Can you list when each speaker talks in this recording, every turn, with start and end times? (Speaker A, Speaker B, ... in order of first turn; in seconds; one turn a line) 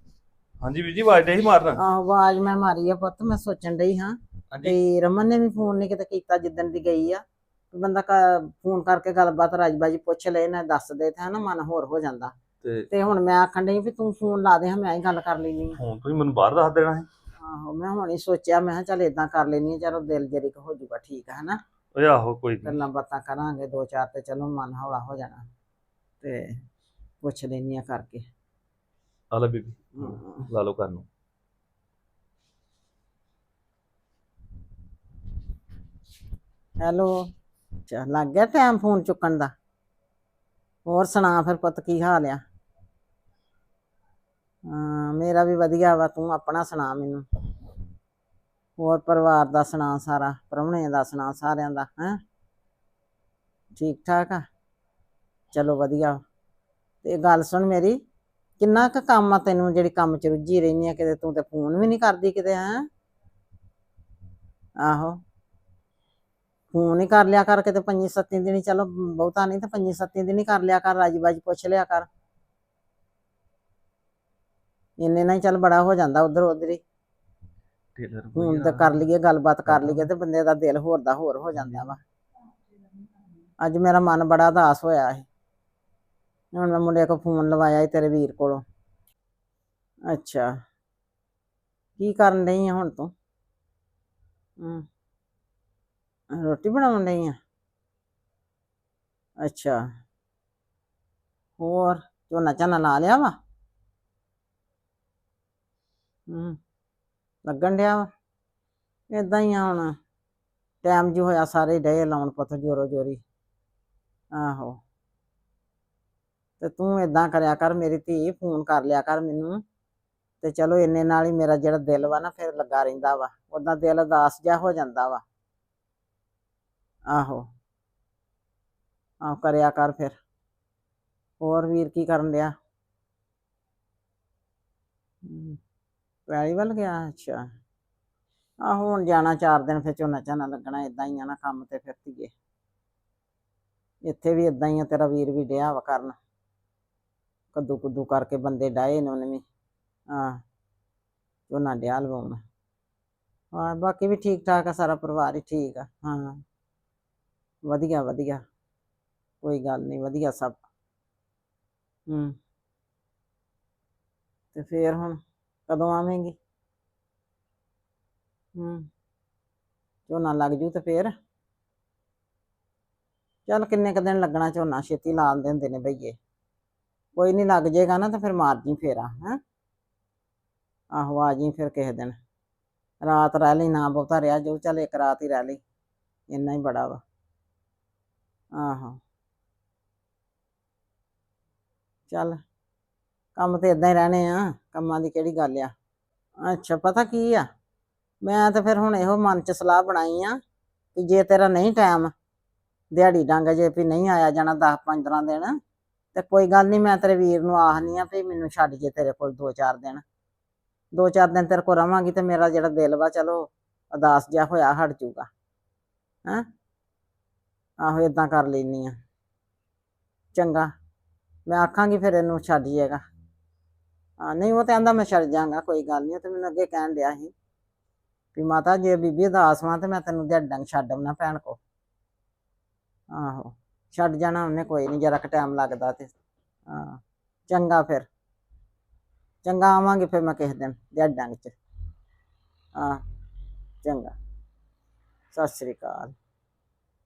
Speaker A: 0.6-1.8
Speaker B: 1.8-12.3
Speaker A: 12.6-12.9
Speaker B: 12.9-15.8
Speaker A: 15.8-17.1
Speaker B: 17.4-21.6
Speaker A: 21.9-22.8
Speaker B: 22.6-25.5
Speaker B: 26.2-26.6
Speaker B: 27.2-28.2
Speaker A: 29.3-31.0
Speaker B: 30.0-30.5
Speaker B: 36.8-37.2
Speaker B: 37.9-39.5
Speaker B: 40.9-42.4
Speaker B: 44.7-47.2
Speaker B: 48.8-52.2
Speaker B: 53.8-54.4
Speaker B: 55.5-56.2
Speaker B: 57.0-58.0
Speaker B: 58.6-62.9
Speaker B: 64.8-65.2
Speaker B: 66.7-72.1
Speaker B: 75.0-76.8
Speaker A: 78.0-79.0
Speaker B: 78.3-82.0
Speaker A: 79.7-80.1
Speaker A: 81.6-81.9
Speaker B: 83.6-85.2
Speaker B: 86.5-88.6
Speaker B: 90.1-90.6
Speaker B: 92.0-93.1
Speaker B: 94.6-94.8
Speaker B: 96.3-97.4
Speaker B: 99.4-99.9
Speaker B: 101.6-103.3
Speaker B: 106.3-106.6
Speaker B: 107.4-108.1
Speaker B: 109.1-110.0
Speaker B: 110.8-113.2
Speaker B: 114.3-114.8
Speaker B: 116.6-119.6
Speaker B: 120.4-125.2
Speaker B: 127.1-127.5
Speaker B: 129.2-130.2
Speaker B: 131.4-132.5
Speaker B: 135.2-135.6
Speaker B: 136.3-137.5
Speaker B: 138.6-142.3
Speaker B: 144.0-146.2
Speaker B: 147.5-149.4
Speaker B: 150.1-150.4
Speaker B: 151.5-152.4
Speaker B: 153.5-156.4
Speaker B: 157.6-158.4
Speaker B: 159.4-160.6
Speaker B: 162.1-162.3
Speaker B: 164.5-166.3
Speaker B: 168.6-168.9
Speaker B: 170.1-171.1
Speaker B: 173.5-176.2
Speaker B: 177.2-179.4
Speaker B: 180.9-182.2
Speaker B: 183.0-185.6
Speaker B: 186.3-187.0
Speaker B: 188.5-189.0
Speaker B: 192.1-192.4
Speaker B: 193.4-195.7
Speaker B: 196.4-197.5
Speaker B: 198.2-200.4
Speaker B: 200.9-202.1
Speaker B: 202.9-205.5
Speaker B: 206.1-210.0
Speaker B: 210.9-215.3
Speaker B: 217.8-218.9
Speaker B: 220.3-220.7
Speaker B: 221.5-223.0
Speaker B: 224.2-227.3
Speaker B: 228.3-231.6
Speaker B: 233.1-236.1
Speaker B: 236.7-238.1
Speaker B: 239.4-241.5
Speaker B: 242.8-243.0
Speaker B: 243.8-244.1
Speaker B: 245.3-246.1